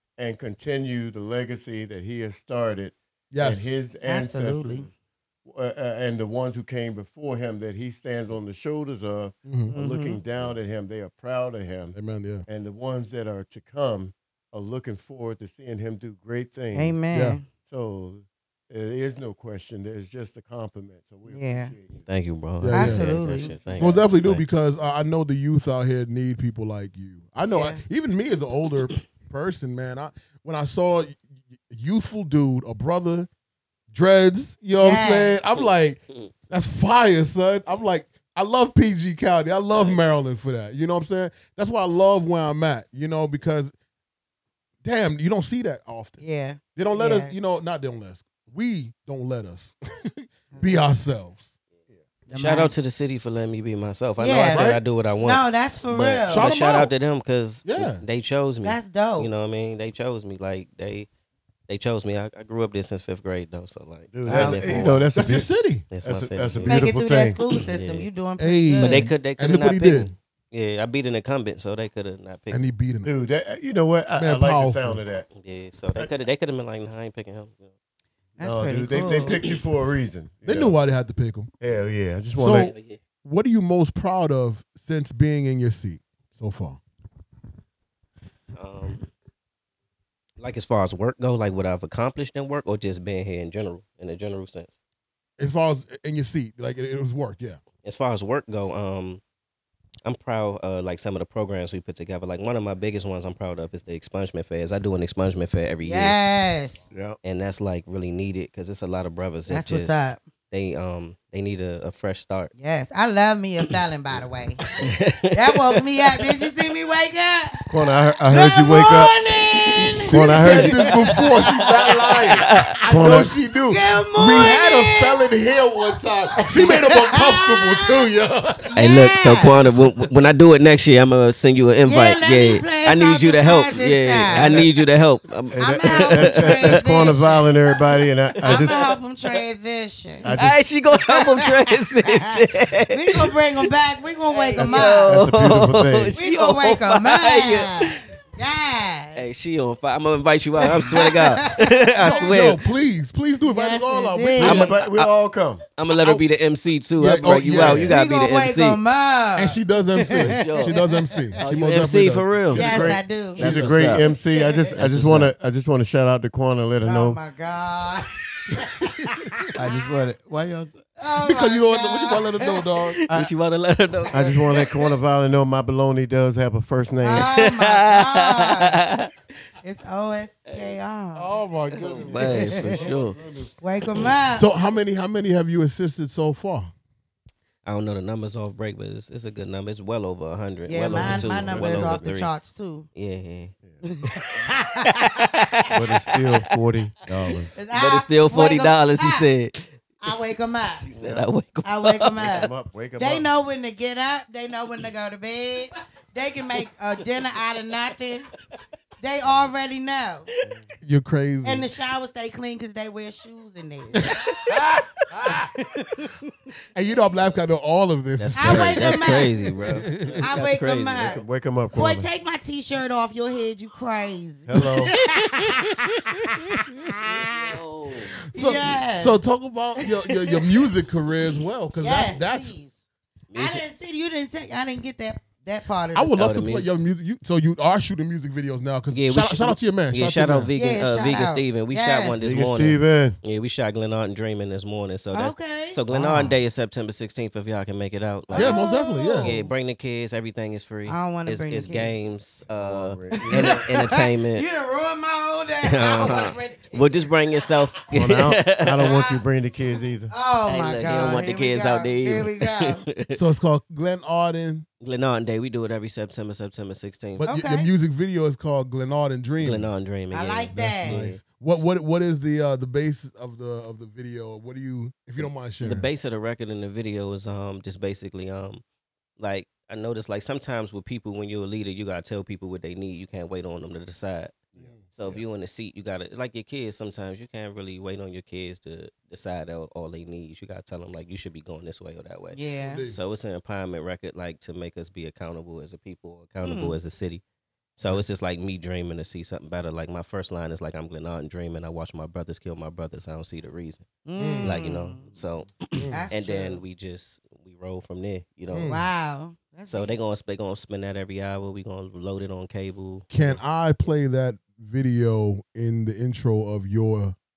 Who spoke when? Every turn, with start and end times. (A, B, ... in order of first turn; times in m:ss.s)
0:00.2-0:17.0 A
0:03.3-0:03.7 B
0:04.0-0:04.9 C
0:09.4-0:09.7 B
0:09.7-0:10.2 C
0:11.9-0:12.4 B
0:16.7-0:17.5 C
0:17.1-0:17.4 B
0:17.6-0:22.1 A
0:21.3-0:21.7 C
0:22.1-0:24.4 D
0:22.6-0:23.2 B
0:22.7-0:23.6 C
0:23.0-0:24.0 A
0:23.8-0:33.3 B
0:27.5-0:27.8 C
0:33.9-0:43.7 B
0:34.8-0:35.4 C
0:35.5-0:36.3 D
0:39.7-0:40.0 D
0:44.8-0:46.2 B
0:46.2-0:47.3 C
0:46.8-0:51.5 B
0:50.5-0:50.8 C
0:52.3-0:52.7 C
0:52.3-1:01.1 D
0:54.2-0:54.7 C
0:54.5-0:54.8 B
0:55.2-0:56.5 C
0:56.3-0:56.9 B
0:57.6-0:58.0 B
0:58.6-0:59.3 C
1:01.7-1:05.1 D
1:04.1-1:05.5 A
1:04.3-1:04.8 C
1:05.1-1:05.9 B
1:05.9-1:06.9 D
1:06.0-1:07.4 A
1:06.6-1:09.1 C
1:07.5-1:08.1 D
1:08.4-1:10.1 B
1:08.8-1:12.7 D
1:12.5-1:13.1 B
1:13.0-1:15.3 A
1:14.2-1:15.0 B
1:15.3-1:17.7 D
1:18.4-1:19.4 C
1:18.4-1:20.7 A
1:18.9-1:19.6 D
1:20.4-1:21.5 B
1:21.6-1:22.7 A
1:22.4-1:26.8 B
1:22.7-1:23.0 D
1:28.6-1:29.1 D
1:30.4-1:34.7 D
1:35.4-1:37.6 B
1:37.8-1:39.2 D
1:40.0-1:46.1 D
1:45.8-1:46.8 C
1:46.9-1:47.2 A
1:47.2-1:52.5 D
1:49.5-1:50.2 C
1:52.6-1:54.6 C
1:54.8-1:56.2 D
1:55.3-1:57.7 C
1:57.7-1:59.1 A
1:58.3-2:01.6 C
1:59.8-2:00.7 D
2:00.1-2:08.7 B
2:00.1-2:00.9 A
2:02.4-2:02.8 D
2:02.9-2:03.4 A
2:03.7-2:05.2 C
2:06.4-2:08.1 C
2:08.6-2:09.6 C
2:08.8-2:17.2 D
2:11.8-2:14.6 C
2:14.3-2:14.7 A
2:15.5-2:19.0 A
2:15.6-2:17.6 C
2:18.4-2:19.0 D
2:18.4-2:20.3 C
2:20.2-2:20.6 A
2:20.3-2:23.3 D
2:20.9-2:25.2 C
2:24.4-2:28.0 D
2:24.5-2:26.2 A
2:26.2-2:29.2 C
2:29.1-2:32.6 D
2:30.6-2:32.4 C
2:32.0-2:34.7 B
2:33.4-2:34.7 C
2:34.4-2:35.1 D
2:34.4-2:35.6 A
2:35.8-2:38.8 D
2:37.0-2:37.9 B
2:37.6-2:37.9 A
2:37.8-2:41.3 C
2:39.4-2:43.9 B
2:40.3-2:40.8 D
2:41.4-2:44.1 D
2:42.5-2:47.2 A
2:42.5-2:43.4 C
2:44.3-2:44.7 C
2:44.7-2:45.3 D
2:46.8-2:49.9 C
2:49.0-2:49.5 B
2:49.5-2:50.8 A
2:51.0-2:52.6 C
2:51.2-2:53.0 B
2:52.9-2:54.7 D
2:54.1-2:54.4 C
2:54.1-2:57.3 A
2:57.0-2:58.8 C
2:57.1-2:59.1 D
2:59.6-3:01.4 C
3:00.5-3:00.8 D
3:01.1-3:03.5 B
3:01.7-3:03.2 D
3:02.1-3:02.8 C
3:03.6-3:04.5 C
3:04.3-3:06.7 B
3:07.6-3:12.3 D
3:10.7-3:12.9 C
3:10.9-3:12.1 A
3:12.9-3:13.5 D
3:13.8-3:15.0 C
3:14.7-3:16.1 D
3:15.7-3:17.6 A
3:17.5-3:19.3 C
3:17.7-3:19.8 D
3:20.0-3:20.9 C
3:20.8-3:22.5 D
3:20.9-3:21.3 A
3:21.6-3:28.3 C
3:22.1-3:23.3 A
3:29.0-3:30.3 C
3:30.8-3:31.7 B
3:31.4-3:34.1 C
3:34.0-3:35.5 B
3:35.3-3:36.1 D
3:36.7-3:40.2 B
3:38.2-3:41.2 D
3:38.4-3:39.3 C
3:40.2-3:45.7 C
3:41.0-3:42.1 A
3:44.4-3:44.9 A
3:44.6-3:47.0 B
3:46.7-3:47.6 C
3:47.3-3:48.2 D
3:48.3-3:52.5 B
3:48.3-3:49.2 C
3:49.8-3:50.5 C
3:51.8-3:52.7 C
3:53.3-3:53.6 D
3:53.3-3:56.2 C
3:55.9-4:00.5 B
3:56.2-3:56.7 D
3:58.9-4:08.6 D
4:00.5-4:02.2 C
4:02.2-4:03.2 A
4:05.1-4:05.8 C
4:05.9-4:06.3 B
4:08.3-4:09.5 C
4:08.3-4:09.4 B
4:09.2-4:14.4 D
4:10.9-4:11.9 C
4:12.5-4:13.7 A
4:13.1-4:17.1 C
4:15.6-4:18.9 D
4:17.9-4:20.1 A
4:18.8-4:19.2 C
4:20.1-4:22.8 C
4:20.5-4:23.2 D
4:23.1-4:24.6 B
4:24.8-4:27.3 D
4:27.2-4:29.7 B
4:27.2-4:27.7 C
4:29.4-4:31.6 D
4:30.1-4:31.0 C
4:30.5-4:35.9 B
4:35.2-4:38.6 D
4:39.2-4:57.2 D
4:44.6-4:45.2 B
4:52.3-4:52.8 C
4:52.6-4:53.0 B
4:56.4-4:56.7 C
4:57.8-5:03.8 D
5:04.0-5:05.1 C
5:04.2-5:04.6 B
5:04.4-5:08.8 D
5:05.7-5:06.1 B
5:05.9-5:06.6 C
5:08.5-5:09.9 C
5:08.6-5:08.9 B
5:09.7-5:13.4 D
5:13.1-5:17.1 B